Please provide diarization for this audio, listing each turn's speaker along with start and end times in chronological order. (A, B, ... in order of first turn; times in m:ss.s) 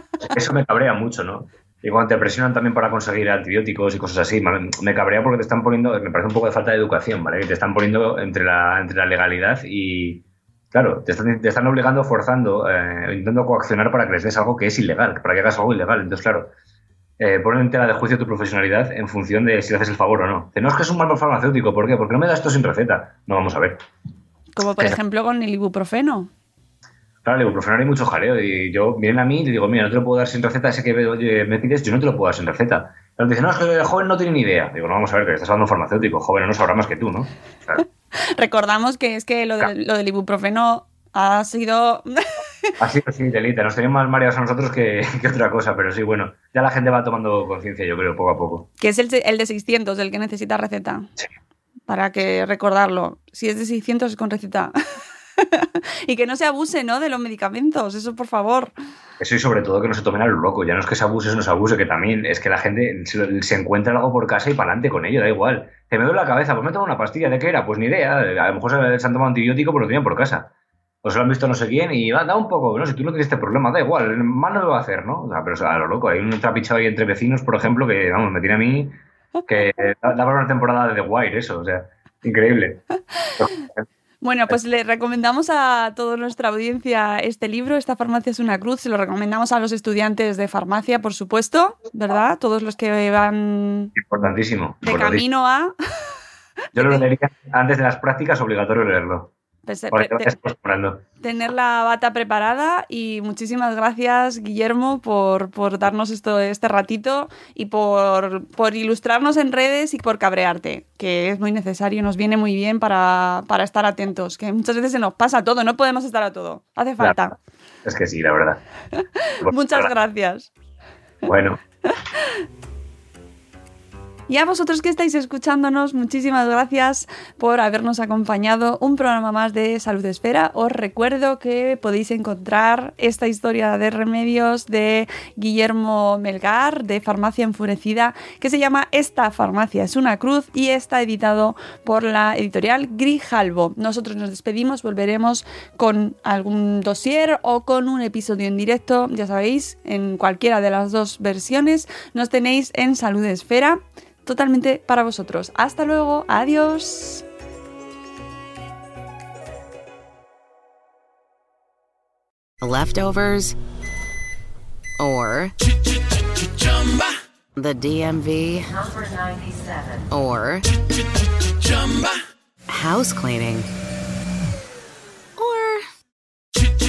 0:00.2-0:16.5 A
0:17.2-0:23.8 A
0:24.5-0:26.3 B
0:27.2-0:37.8 A
0:38.4-0:42.6 B
0:42.8-0:48.7 A
0:48.8-0:51.1 B
0:51.9-0:54.7 B
0:55.4-0:58.7 B
0:59.2-1:10.5 A
1:11.0-1:19.0 A
1:19.5-1:22.8 A
1:24.2-1:33.9 B
1:34.0-1:35.2 A
1:34.8-1:35.7 B
1:36.7-1:37.1 B
1:36.7-1:39.3 A
1:39.6-1:40.4 B
1:39.9-1:41.0 A
1:41.2-1:57.4 B
1:57.0-1:57.3 A
1:57.8-1:58.6 A
1:59.0-2:00.5 B
1:59.4-1:59.9 A
2:01.2-2:01.6 A
2:04.3-2:37.2 B
2:42.6-2:43.5 C
2:45.0-2:45.5 C
2:47.6-2:50.7 C
2:52.7-2:53.7 C
2:55.4-2:55.8 C